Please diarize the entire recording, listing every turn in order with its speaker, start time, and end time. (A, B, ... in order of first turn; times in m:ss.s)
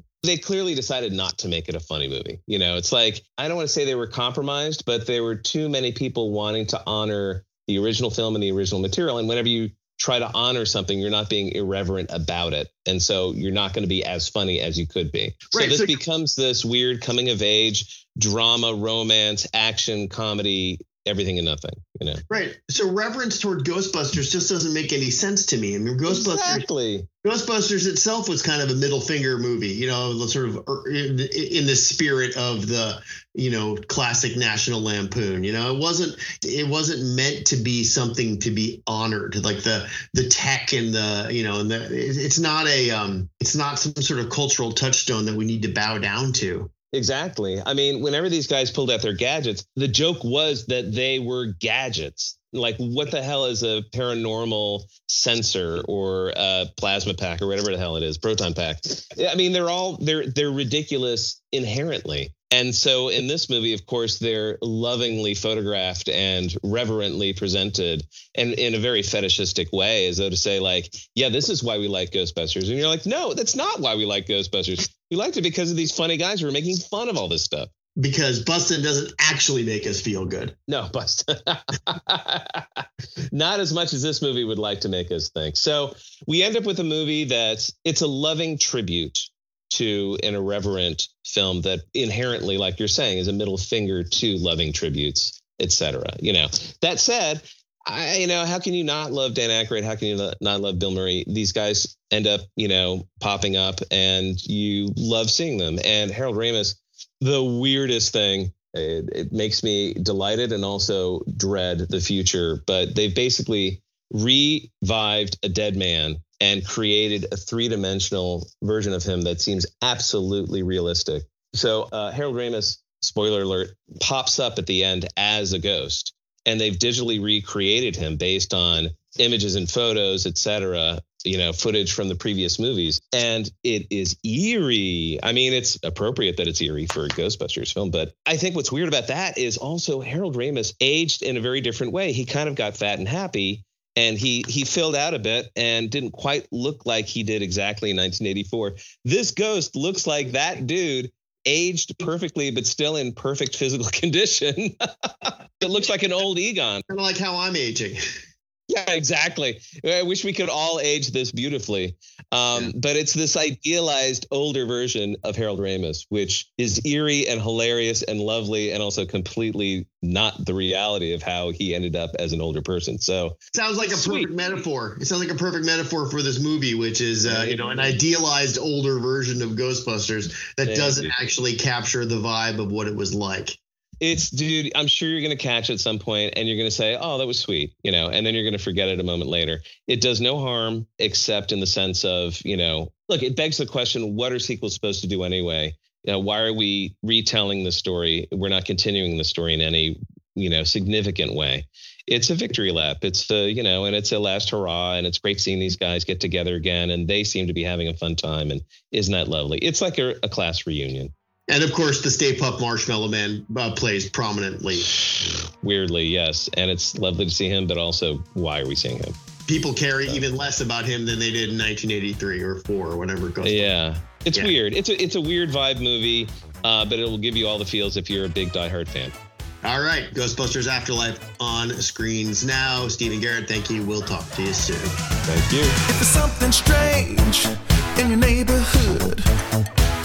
0:00.2-0:22.2 A
0:15.5-0:16.0 B
0:22.3-0:26.6 B
0:26.1-0:27.1 A
0:27.2-0:46.7 B
0:46.9-1:17.7 A
1:18.0-1:20.6 B
1:20.7-2:36.8 A
2:36.9-2:38.0 B
2:38.7-2:54.3 A
2:53.5-3:03.6 B
2:57.2-2:58.0 A
3:00.6-3:01.2 A
3:04.0-3:31.1 A
3:31.5-3:34.9 B
3:35.6-3:39.2 A
3:39.5-3:43.7 B
3:43.4-3:49.1 A
3:49.6-3:55.0 B
3:55.2-3:55.8 A
3:55.8-3:59.3 C